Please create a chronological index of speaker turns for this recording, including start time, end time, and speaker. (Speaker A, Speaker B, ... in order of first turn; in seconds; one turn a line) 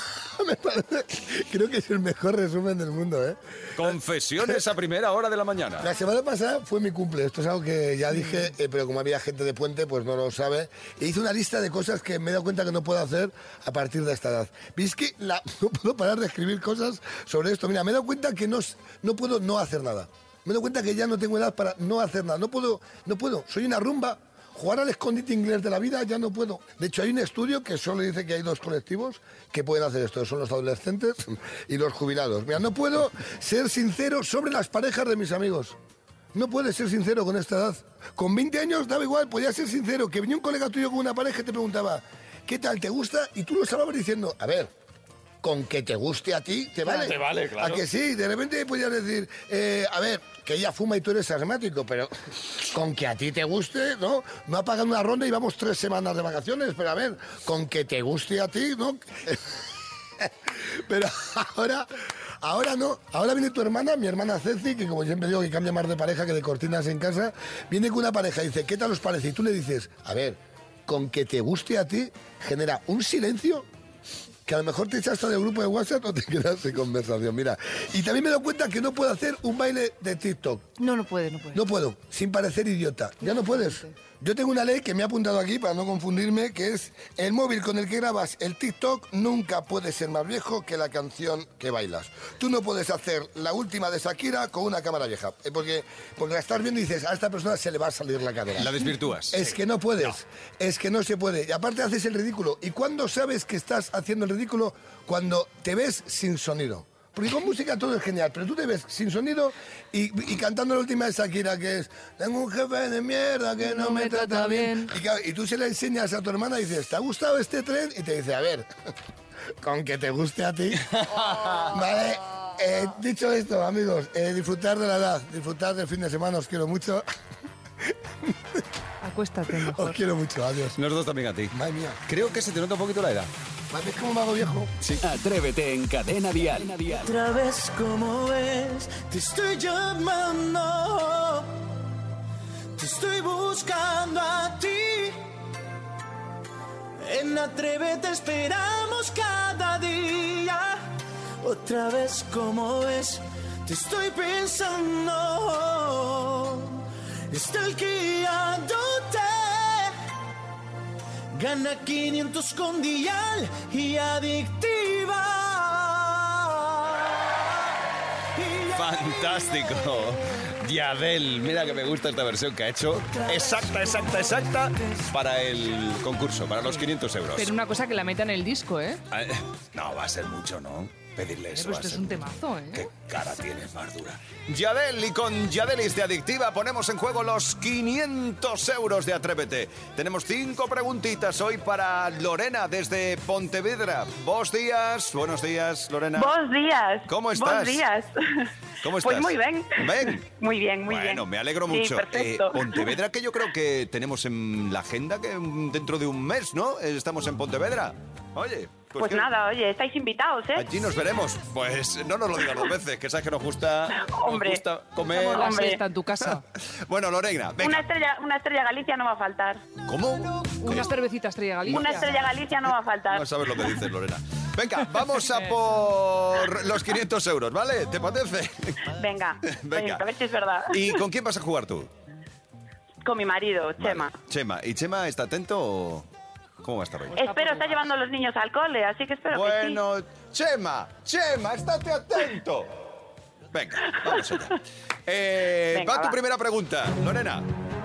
Speaker A: 0.3-3.9
Speaker B: 3.8-5.9
Speaker A: 5.8-35.8
Speaker A: 36.3-44.7
Speaker A: 45.4-59.4
Speaker B: 47.1-47.6
Speaker A: 60.2-61.9
Speaker A: 62.4-73.7
Speaker A: 74.5-80.7
Speaker C: 80.8-81.6
Speaker A: 81.5-118.7
Speaker C: 83.2-83.9
Speaker B: 98.6-99.5
Speaker C: 113.6-114.9
Speaker A: 119.6-120.9
Speaker B: 120.9-121.7
Speaker A: 121.7-127.0
Speaker C: 129.0-130.0
Speaker A: 129.6-130.8
Speaker B: 130.8-131.5
Speaker A: 131.5-132.0
Speaker B: 132.1-133.3
Speaker A: 133.7-134.7
Speaker D: 135.0-137.1
Speaker E: 136.9-141.5
Speaker E: 142.8-145.2
Speaker E: 147.0-150.8
Speaker E: 151.4-159.9
Speaker E: 161.3-167.4
Speaker E: 168.4-168.9
Speaker B: 168.7-177.5
Speaker E: 173.3-173.7
Speaker C: 177.3-179.0
Speaker B: 179.1-182.2
Speaker C: 181.5-182.9
Speaker B: 182.7-196.3
Speaker F: 196.2-198.1
Speaker B: 197.1-197.9
Speaker B: 198.8-200.3
Speaker F: 199.0-202.9
Speaker B: 200.9-209.3
Speaker F: 209.0-210.7
Speaker B: 210.5-215.7
Speaker F: 213.9-214.6
Speaker C: 215.1-216.4
Speaker F: 215.3-215.8
Speaker B: 216.9-217.9
Speaker F: 217.6-219.6
Speaker B: 219.9-220.9
Speaker C: 220.6-222.1
Speaker B: 221.7-228.9
Speaker F: 221.7-223.3
Speaker F: 229.0-231.0
Speaker B: 229.4-230.1
Speaker B: 230.7-231.9
Speaker F: 233.1-234.1
Speaker B: 233.8-236.1
Speaker B: 236.6-237.3
Speaker C: 237.1-237.9
Speaker F: 237.2-239.8
Speaker B: 239.3-242.7
Speaker B: 243.5-247.4
Speaker F: 245.7-246.2